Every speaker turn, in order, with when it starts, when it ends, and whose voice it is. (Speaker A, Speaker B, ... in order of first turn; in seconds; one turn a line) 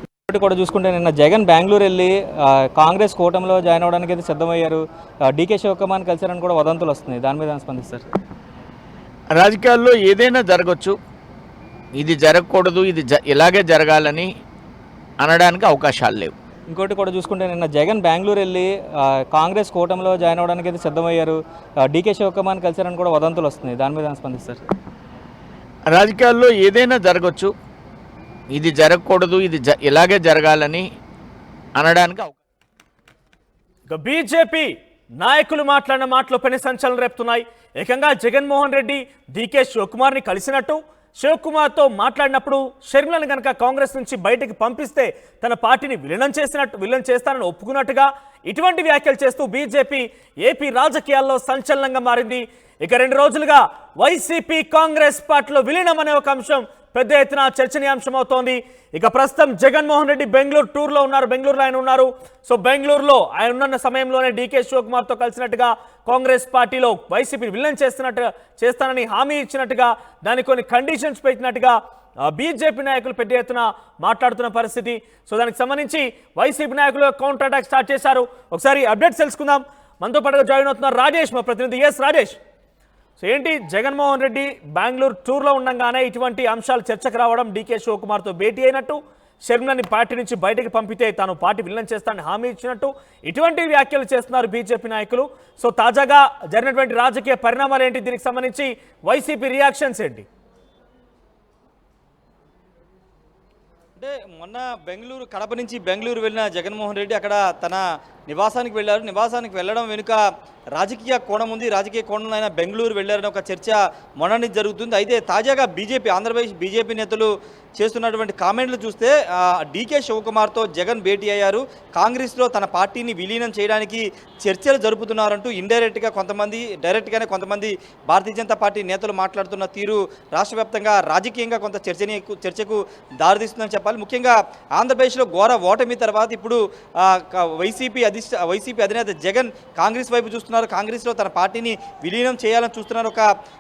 Speaker A: 0.3-8.1
Speaker B: 9.3-11.0
Speaker B: 11.9-14.3
Speaker B: 15.2-16.4
Speaker A: 16.7-24.6
Speaker B: 25.9-27.5
Speaker B: 28.5-30.9
Speaker B: 31.8-32.3
Speaker C: 33.9-82.4
Speaker C: 83.2-100.3
Speaker D: 104.0-110.2
Speaker D: 110.8-143.3